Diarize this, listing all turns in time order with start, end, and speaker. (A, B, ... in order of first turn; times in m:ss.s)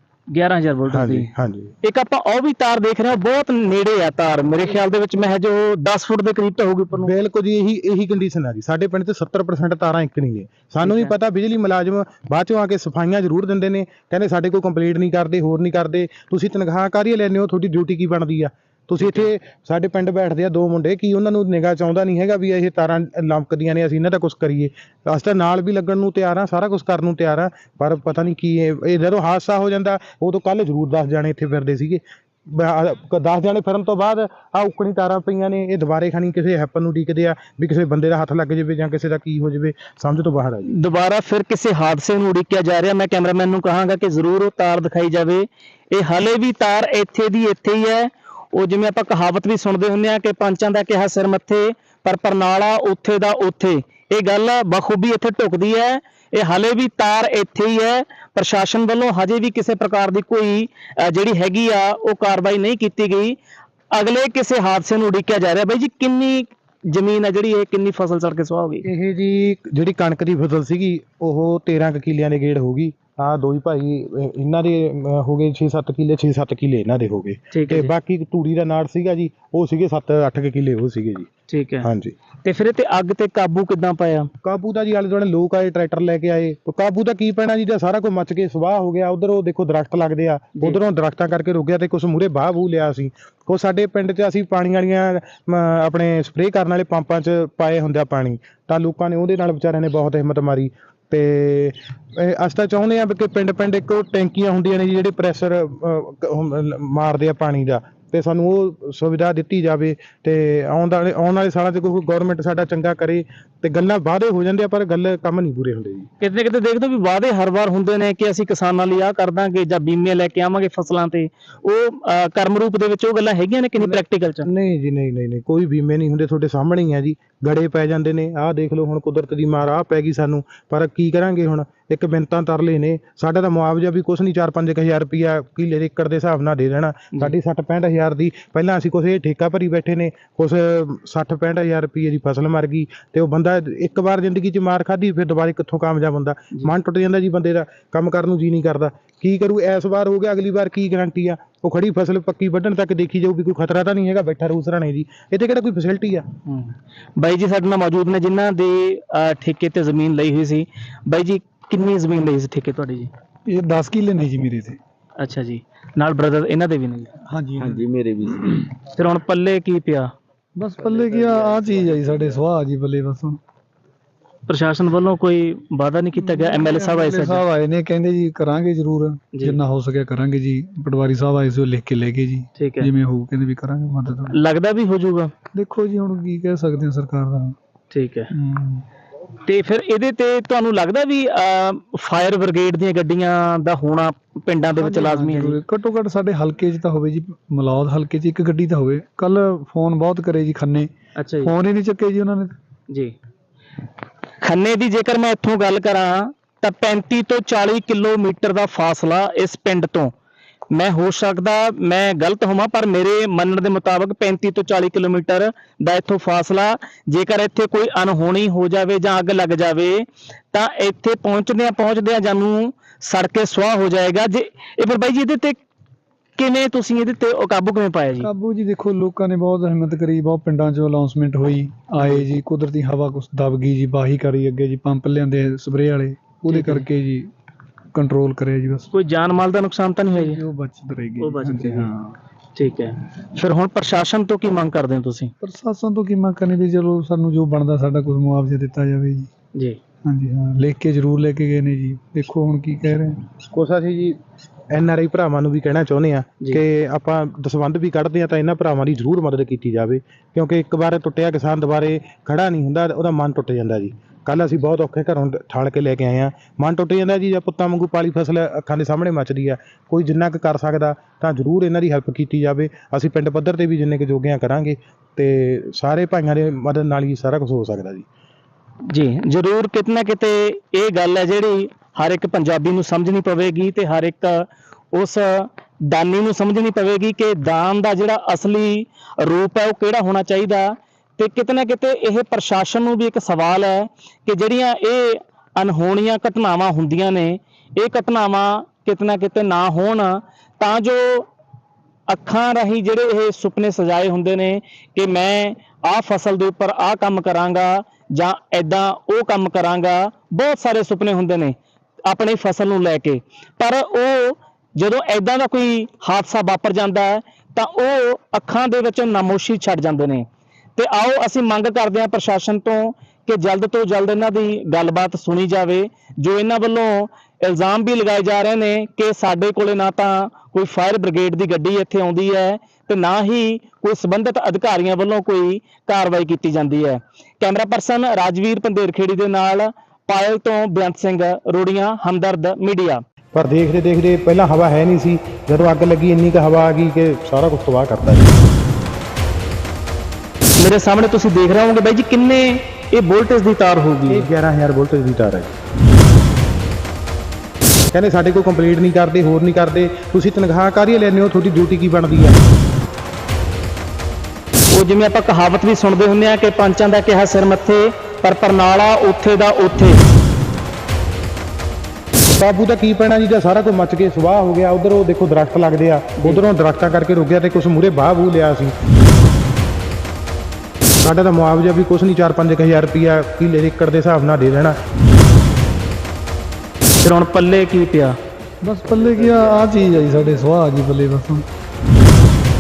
0:00.3-0:01.3 A
0:00.9-0:01.7 B
0:01.8-0:07.1 A
0:07.0-0:40.8 B
0:10.8-0:11.1 A
0:19.0-0:19.3 A
0:40.7-1:03.4 A
1:03.9-1:08.8 A
1:08.8-1:21.3 B
1:17.5-1:17.9 A
1:21.5-1:21.9 A
1:21.8-1:22.1 B
1:22.4-1:24.3 A
1:24.4-1:56.1 B
1:56.2-2:04.5 A
2:03.8-2:36.2 B
2:36.5-2:43.1 A
2:43.5-2:44.8 C
2:45.2-2:47.1 A
2:47.3-2:47.9 C
2:47.6-2:48.6 D
2:48.9-2:50.1 A
2:50.6-2:53.4 C
2:50.9-2:52.4 D
2:54.5-2:57.4 A
2:56.2-3:04.4 C
2:59.3-2:59.6 A
3:02.6-3:02.9 A
3:04.3-3:05.3 A
3:05.6-3:07.6 C
3:07.9-3:08.3 A
3:08.3-3:08.8 C
3:09.4-3:15.6 A
3:14.8-3:22.6 C
3:21.2-3:21.5 A
3:24.4-3:30.1 A
3:30.7-3:45.6 A
3:46.4-3:48.3 A
3:48.2-3:57.3 C
3:52.0-3:52.3 A
3:56.5-3:56.9 A
3:57.9-3:58.9 C
3:58.9-4:00.4 A
4:00.1-4:02.2 C
4:01.2-4:01.9 A
4:02.6-4:05.3 A
4:05.4-4:09.3 C
4:10.1-4:13.2 C
4:13.5-4:14.2 B
4:14.7-4:38.1 B
4:38.9-5:01.3 A
5:02.1-5:11.6 A
5:12.1-5:43.0 A
5:43.3-5:48.4 B
5:50.6-5:54.3 A
5:54.1-5:55.5 B
5:57.9-6:02.4 B
6:04.7-6:10.0 A
6:12.3-6:18.7 B
6:21.0-6:24.8 B
6:27.0-6:28.2 A
6:28.6-6:31.4 C